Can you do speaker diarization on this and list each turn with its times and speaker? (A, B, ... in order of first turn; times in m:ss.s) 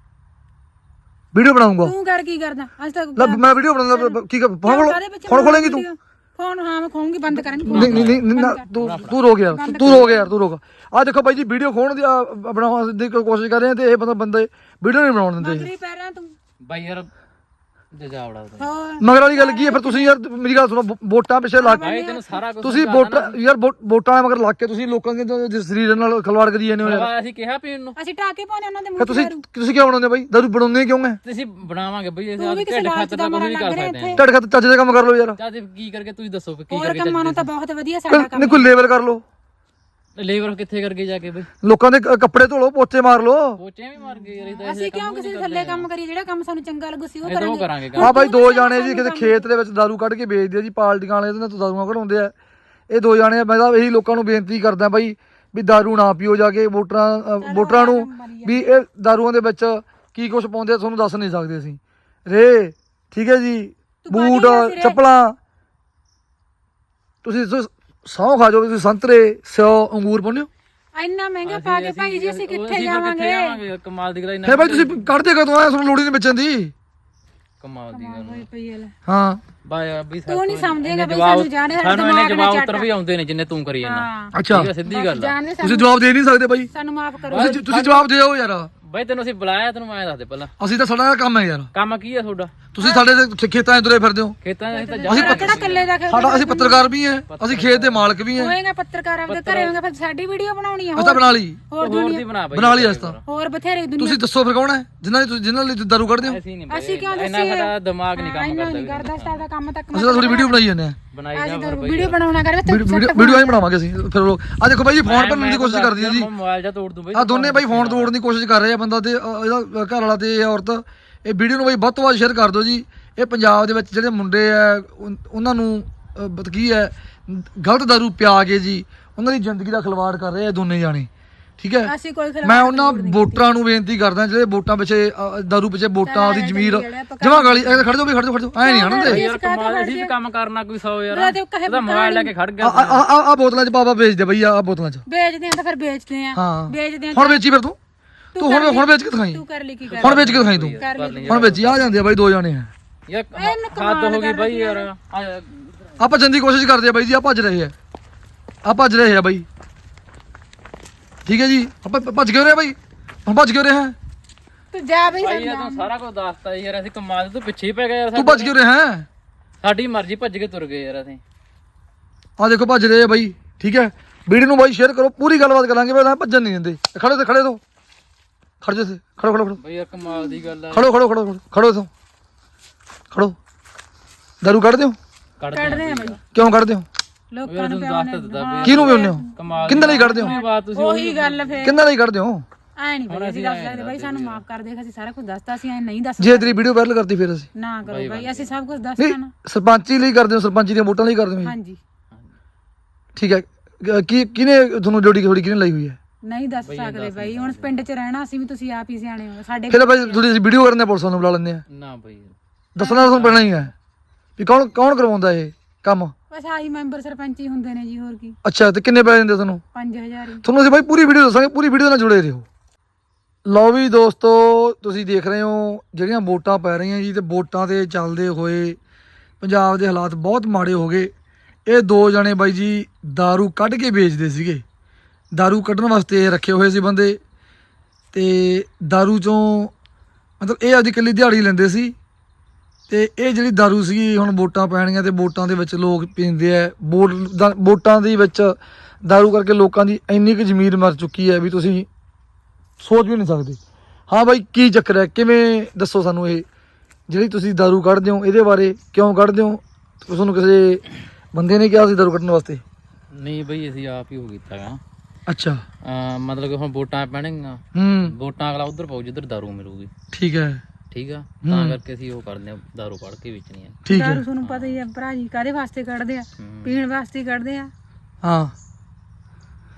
0:01.3-0:01.9 A
0:01.8-0:08.7 B
0:03.2-0:05.8 A
0:07.7-0:09.2 C
0:07.7-0:15.7 A
0:09.5-0:10.3 B
0:15.4-0:16.3 B
0:16.6-0:17.1 C
0:17.9-0:18.7 C
0:18.6-0:20.2 B
0:19.0-0:21.9 A
0:21.6-0:22.2 B
0:21.8-0:23.4 C
0:22.6-0:27.1 A
0:26.8-0:28.0 C
0:28.0-0:29.4 B
0:29.0-0:31.2 A
0:31.2-0:34.2 C
0:32.4-0:34.2 B
0:34.2-0:35.4 A
0:35.4-0:37.5 C
0:36.7-0:38.7 B
0:38.1-0:39.2 A
0:40.2-0:41.5 C
0:41.6-0:43.6 A
0:43.6-0:45.9 C
0:44.0-0:49.4 B
0:47.2-0:48.2 C
0:48.0-0:52.3 A
0:52.9-1:05.4 A
0:57.4-0:58.7 B
1:04.1-1:05.0 B
1:07.2-1:10.5 A
1:11.0-1:13.6 B
1:11.4-1:15.1 C
1:14.4-1:16.7 A
1:17.6-1:18.4 C
1:17.9-1:18.9 B
1:19.1-1:19.4 A
1:19.6-1:25.4 C
1:20.3-1:22.9 B
1:23.8-1:25.9 B
1:24.3-1:24.7 A
1:25.6-1:26.7 A
1:26.7-1:27.7 B
1:27.3-1:28.1 C
1:27.3-1:28.7 A
1:28.8-1:30.5 C
1:30.6-1:31.7 A
1:31.7-1:32.6 C
1:32.7-1:34.4 A
1:32.8-1:33.0 B
1:34.4-1:36.0 C
1:34.7-1:36.9 B
1:35.1-1:38.6 A
1:37.3-1:38.1 C
1:38.3-1:42.2 B
1:39.3-1:39.8 C
1:41.0-1:41.6 A
1:41.8-1:43.2 C
1:42.5-1:43.2 A
1:43.2-1:44.2 B
1:44.0-1:46.4 A
1:46.2-1:49.4 C
1:46.7-1:50.6 B
1:49.9-1:51.0 A
1:51.1-1:52.2 C
1:51.3-1:53.6 B
1:52.7-1:56.3 A
1:55.0-1:58.1 C
1:57.1-2:19.2 A
2:11.8-2:13.4 B
2:16.0-2:17.9 B
2:18.6-2:20.1 B
2:19.0-2:23.0 C
2:21.1-2:22.3 B
2:22.6-2:25.0 A
2:25.1-2:27.4 B
2:26.4-2:27.8 A
2:28.4-2:31.5 B
2:28.4-2:29.4 A
2:29.9-2:31.9 C
2:30.0-2:32.7 A
2:33.1-2:35.9 C
2:33.4-2:34.9 B
2:36.0-2:37.7 A
2:38.6-2:39.4 A
2:41.2-2:44.0 A
2:44.7-2:45.9 B
2:45.1-2:48.5 C
2:48.1-2:49.1 A
2:49.6-2:51.2 C
2:52.4-2:57.6 A
2:58.6-2:59.6 A
2:59.6-3:00.9 C
3:00.0-3:00.4 B
3:00.7-3:01.9 A
3:03.1-3:03.4 A
3:04.4-3:05.0 A
3:05.4-3:06.2 C
3:05.5-3:06.2 B
3:06.3-3:06.9 A
3:07.3-3:11.8 B
3:07.5-3:11.6 C
3:08.6-3:10.3 A
3:11.6-3:12.4 A
3:12.8-3:16.6 B
3:13.1-3:14.4 C
3:16.2-3:17.5 A
3:17.6-3:19.3 B
3:17.9-3:18.5 C
3:19.0-3:21.5 A
3:21.4-3:21.8 B
3:23.1-3:26.0 A
3:26.2-3:30.2 B
3:26.6-3:27.8 C
3:29.7-3:31.6 A
3:31.7-3:32.4 C
3:32.8-3:33.7 A
3:32.8-3:33.2 B
3:33.1-3:33.5 C
3:34.4-3:36.1 A
3:36.3-3:38.4 B
3:38.4-3:39.6 A
3:39.7-3:40.4 B
3:40.4-3:42.4 A
3:43.4-3:48.8 A
3:49.4-3:51.1 A
3:51.7-3:54.6 A
3:55.3-3:57.2 A
3:58.1-3:59.7 A
4:00.4-4:01.9 A
4:02.9-4:11.9 A
4:12.8-4:16.5 A
4:17.1-4:20.8 A
4:21.3-4:22.6 A
4:23.2-4:24.8 C
4:25.3-4:25.6 A
4:25.8-4:29.9 C
4:27.8-4:28.1 A
4:30.1-4:30.6 A
4:30.9-4:33.8 C
4:31.4-4:31.8 A
4:33.8-4:34.2 A
4:33.9-4:37.7 B
4:34.4-4:34.8 C
4:36.4-4:36.7 C
4:38.2-4:38.5 A